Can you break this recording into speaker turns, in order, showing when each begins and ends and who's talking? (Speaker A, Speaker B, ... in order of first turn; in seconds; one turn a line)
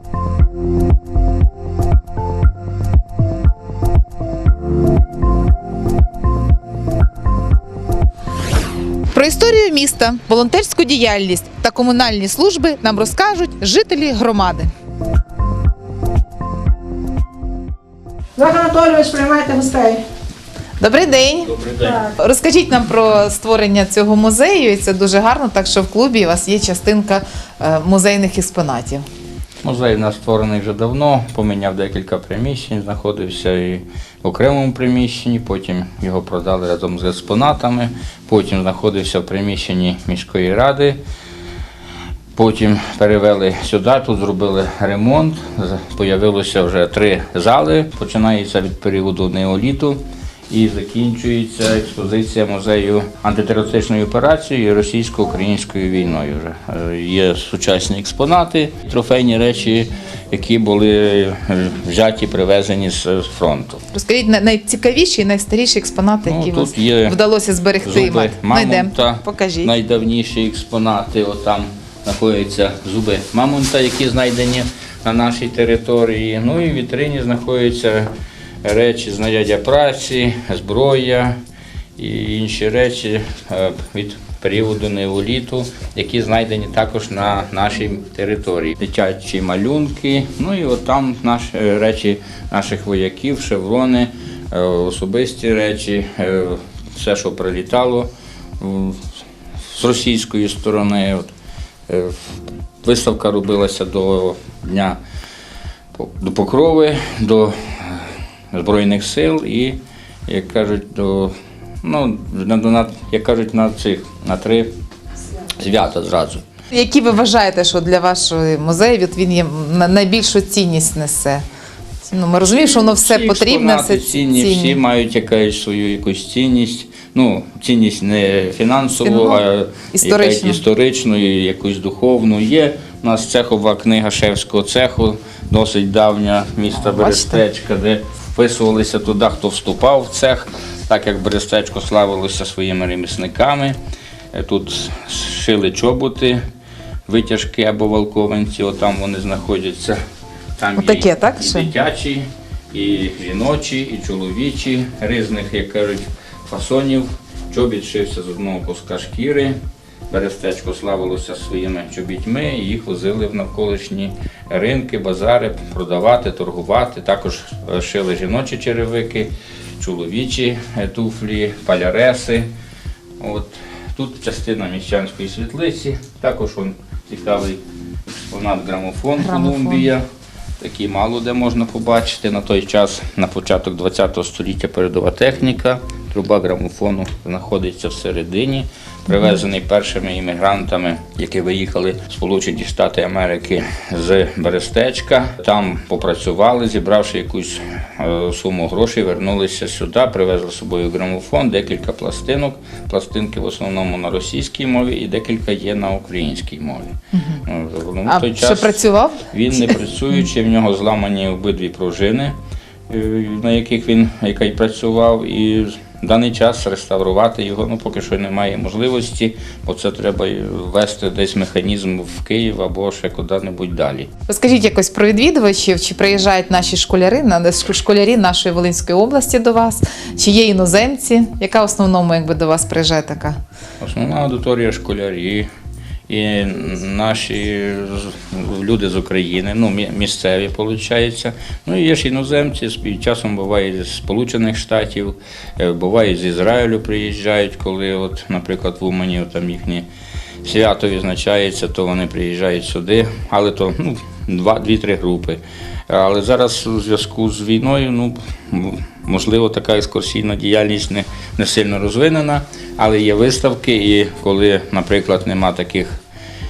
Speaker A: 9.1-14.7
Speaker B: 18.4-20.0
Speaker A: 20.8-21.5
Speaker C: 21.5-22.0
Speaker B: 21.8-22.1
Speaker A: 22.2-29.1
Speaker C: 29.6-41.0
Speaker C: 42.4-63.8
Speaker A: 63.9-69.7
Speaker C: 66.3-67.2
Speaker C: 67.8-78.1
Speaker C: 78.6-81.4
Speaker C: 82.0-98.1
Speaker C: 98.6-101.3
Speaker C: 101.9-105.0
Speaker C: 106.0-114.7
Speaker C: 115.5-116.4
Speaker A: 116.7-121.4
Speaker A: 122.1-124.8
Speaker C: 122.4-143.8
Speaker A: 129.0-129.4
Speaker A: 129.9-130.6
Speaker A: 136.8-137.4
Speaker C: 144.3-146.4
Speaker C: 147.1-150.0
Speaker C: 150.6-159.6
Speaker A: 150.8-151.7
Speaker C: 160.1-172.5
Speaker C: 173.2-180.1
Speaker A: 179.2-179.9
Speaker C: 180.6-206.9
Speaker A: 189.1-189.4
Speaker A: 207.1-207.4
Speaker C: 207.5-212.4
Speaker A: 208.1-209.8
Speaker C: 212.9-224.1
Speaker A: 224.3-233.4
Speaker C: 233.8-235.5
Speaker C: 236.1-249.9
Speaker C: 250.4-266.0